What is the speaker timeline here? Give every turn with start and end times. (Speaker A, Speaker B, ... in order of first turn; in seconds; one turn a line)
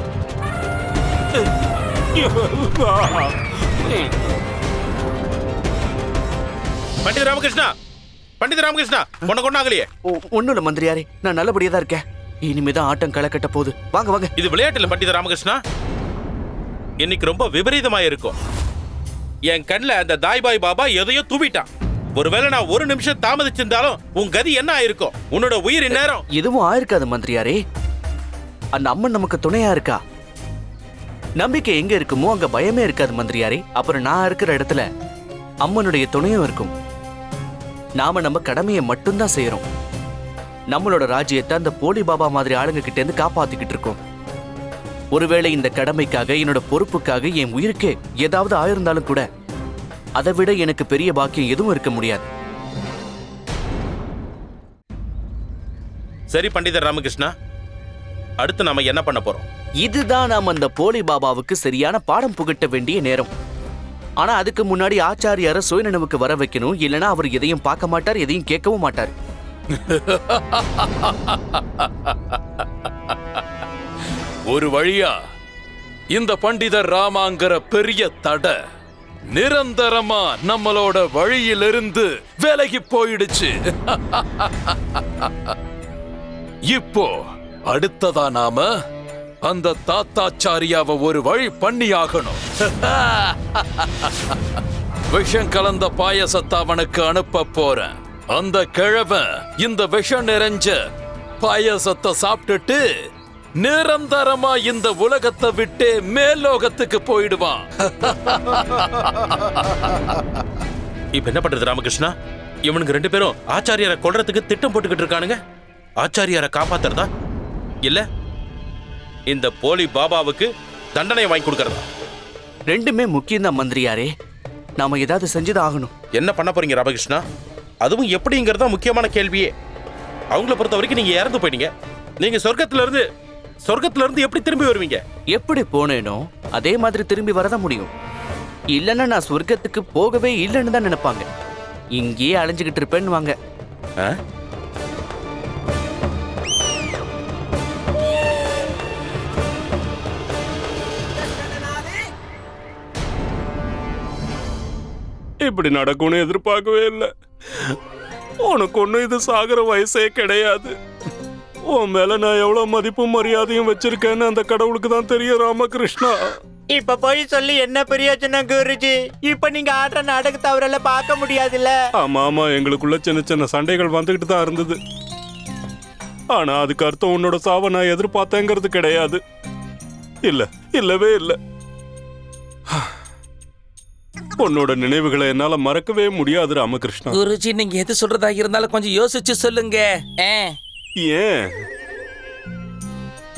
Speaker A: 2.2-4.1
Speaker B: 7.0-7.7
Speaker B: 8.4-9.9
Speaker C: 10.1-14.3
Speaker B: 14.4-15.6
Speaker B: 17.0-18.4
Speaker B: 19.5-26.2
Speaker C: 26.3-27.6
Speaker C: 28.8-30.0
Speaker C: 31.4-34.9
Speaker C: 35.6-36.7
Speaker C: 38.0-39.6
Speaker C: 40.7-44.0
Speaker C: 45.1-49.3
Speaker C: 50.2-52.3
Speaker B: 56.3-57.3
Speaker B: 58.4-59.5
Speaker C: 59.8-63.3
Speaker C: 64.2-69.1
Speaker D: 69.7-73.4
Speaker D: 74.5-75.2
Speaker D: 76.1-78.6
Speaker D: 79.3-85.5
Speaker D: 86.7-88.7
Speaker D: 89.4-94.4
Speaker D: 95.1-102.8
Speaker D: 103.6-109.3
Speaker B: 111.2-112.1
Speaker B: 112.7-115.4
Speaker B: 116.0-117.1
Speaker B: 119.3-121.8
Speaker C: 122.7-124.1
Speaker C: 124.8-125.9
Speaker B: 126.2-127.2
Speaker B: 127.8-129.5
Speaker B: 130.3-131.7
Speaker B: 132.2-133.0
Speaker B: 133.7-135.0
Speaker C: 135.3-137.9
Speaker C: 138.8-141.3
Speaker C: 141.9-143.3
Speaker A: 155.4-157.1
Speaker A: 158.5-160.7
Speaker A: 161.7-166.1
Speaker E: 166.7-171.8
Speaker A: 172.0-174.8
Speaker A: 176.3-179.2
Speaker A: 180.3-181.4
Speaker A: 184.4-187.2
Speaker F: 187.1-190.6
Speaker A: 191.1-191.4